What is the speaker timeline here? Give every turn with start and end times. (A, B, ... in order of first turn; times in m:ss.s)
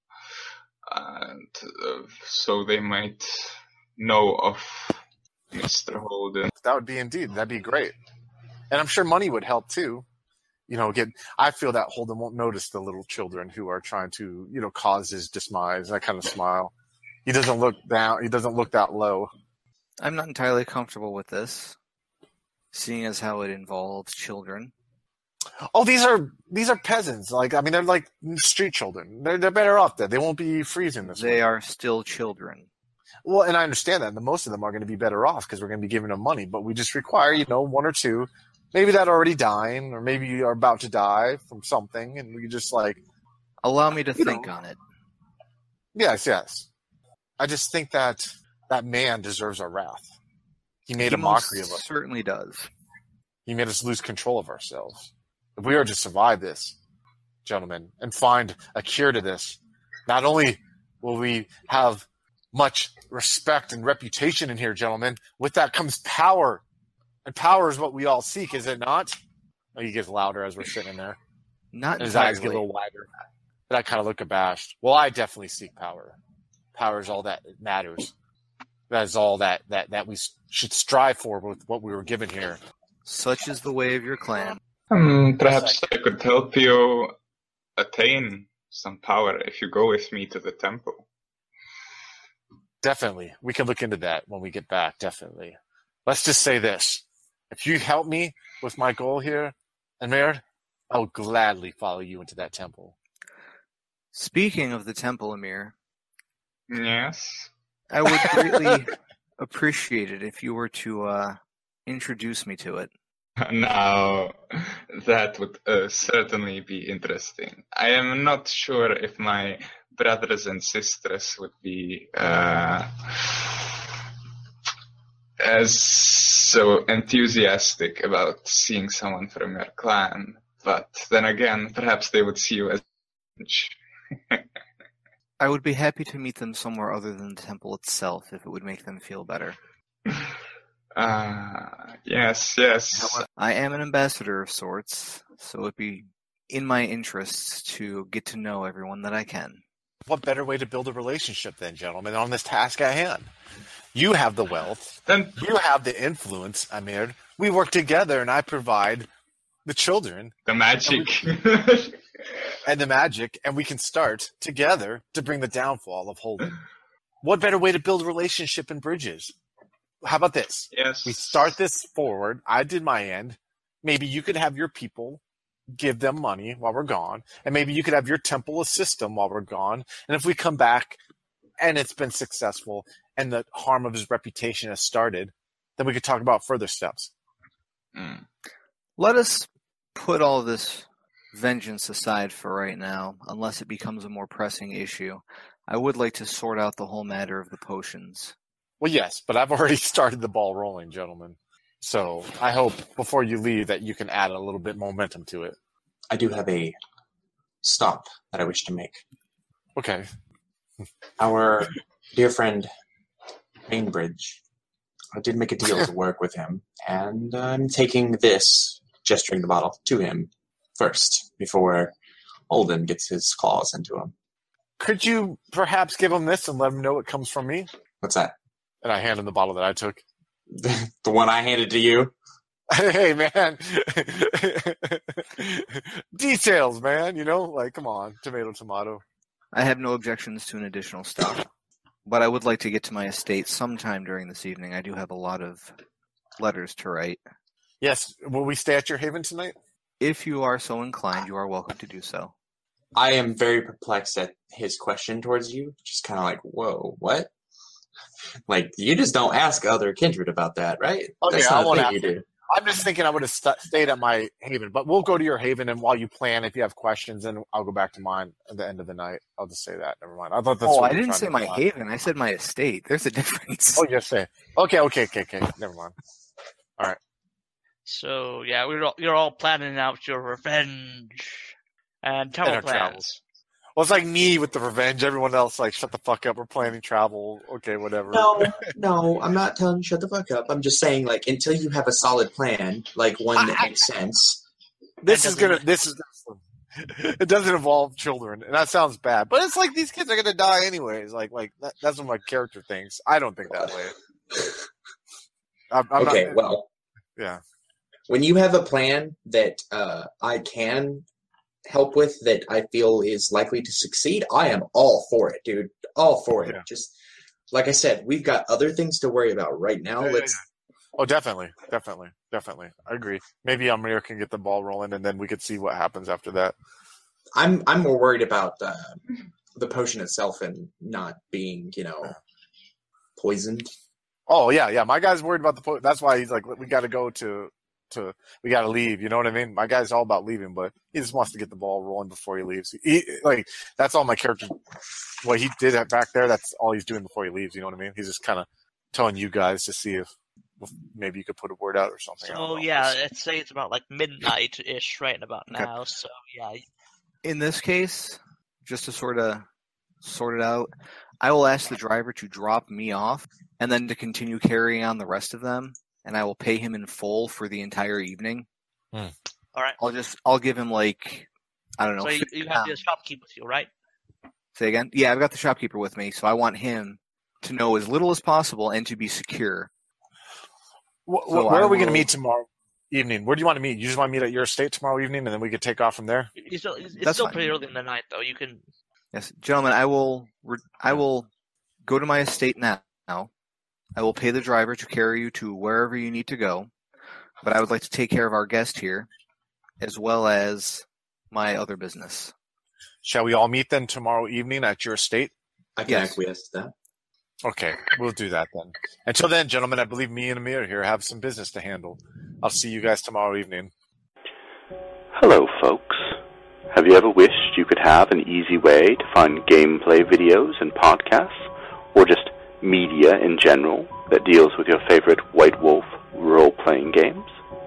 0:00.9-0:05.0 A
0:05.5-0:06.5 A
0:06.6-0:07.9 B
0:08.7-0:10.0 B
0:10.7-0:16.7 B
0:17.3-0:19.3 B
0:20.0-0:21.8 C
0:22.7-0:24.7 C
0:25.7-0:31.4 B
0:31.0-0:32.7 C
0:33.2-0:43.0 B
0:43.6-0:44.8 C
0:44.2-0:44.4 B
0:46.0-0:46.7 B
0:47.4-0:50.1 B
0:50.9-0:51.8 B
0:51.0-0:52.7 C
0:53.5-0:56.8 B
0:57.4-1:06.6 B
1:07.2-1:09.2 B
1:09.8-1:11.2 B
1:11.7-1:12.6 C
1:12.0-1:13.1 B
1:13.7-1:16.2 B
1:16.8-1:18.1 B
1:18.9-1:22.6 B
1:23.0-1:24.6 C
1:24.9-1:27.2 A
1:27.8-1:31.0 A
1:32.8-1:43.0 B
1:44.1-1:45.8 C
1:46.7-1:47.5 A
1:47.9-1:52.9 C
1:53.4-2:03.7 A
2:05.4-2:12.8 A
2:13.4-2:13.8 A
2:15.4-2:19.6 C
2:21.0-2:23.2 A
2:23.1-2:29.6 C
2:30.1-2:33.3 B
2:33.9-2:39.1 B
2:35.1-2:35.3 A
2:39.6-2:40.3 B
2:40.5-2:42.0 A
2:40.8-2:41.1 B
2:42.7-2:46.6 B
2:47.2-2:49.3 B
2:50.0-2:55.2 B
2:50.7-2:51.5 A
2:55.8-3:01.0 B
3:01.6-3:07.1 B
3:08.0-3:08.2 A
3:09.0-3:18.4 C
3:18.8-3:25.6 B
3:26.1-3:26.8 D
3:27.6-3:29.0 D
3:29.8-3:30.1 B
3:31.2-3:32.7 D
3:33.7-3:34.4 D
3:35.2-3:41.9 D
3:42.5-3:44.1 D
3:44.8-3:47.7 B
3:48.0-3:48.4 D
3:48.8-3:50.0 B
3:50.5-3:52.1 D
3:52.7-3:59.0 B
3:59.5-4:01.5 C
4:02.0-4:05.8 C
4:06.4-4:07.2 C
4:07.8-4:09.6 B
4:10.0-4:12.3 C
4:13.0-4:17.3 D
4:18.5-4:22.2 D
4:21.2-4:31.6 B
4:30.6-4:33.8 C
4:33.8-4:35.9 B
4:37.9-4:43.2 E
4:42.4-4:43.1 B
4:43.8-4:48.6 B
4:48.1-4:54.4 D
4:53.4-4:53.8 E
4:55.0-5:03.9 B
4:55.1-4:55.6 E
5:03.5-5:03.8 D
5:04.3-5:04.6 D
5:05.7-5:06.4 B
5:06.0-5:06.7 D
5:08.1-5:11.0 D
5:11.7-5:16.9 D
5:17.5-5:20.4 D
5:20.0-5:20.4 B
5:21.0-5:26.6 B
5:27.4-5:29.0 D
5:29.6-5:32.2 D
5:33.2-5:33.7 D
5:34.3-5:44.5 B
5:45.2-5:50.1 B
5:50.6-5:53.0 B
5:52.2-5:56.6 E
5:57.2-5:59.5 C
6:00.0-6:00.7 C
6:01.2-6:08.5 C
6:09.8-6:11.3 C
6:11.8-6:12.7 C
6:12.0-6:13.7 E
6:14.6-6:19.7 C
6:21.1-6:26.3 B
6:21.3-6:22.1 C
6:26.4-6:28.6 E
6:27.0-6:27.6 C
6:29.1-6:31.3 C
6:31.8-6:33.3 C
6:34.0-6:36.7 C
6:37.4-6:39.1 C
6:39.8-6:42.3 C
6:43.0-6:45.3 B
6:45.8-6:46.7 D
6:45.9-6:46.2 C
6:47.4-6:53.7 B
6:55.2-6:56.2 F
6:56.7-7:07.3 F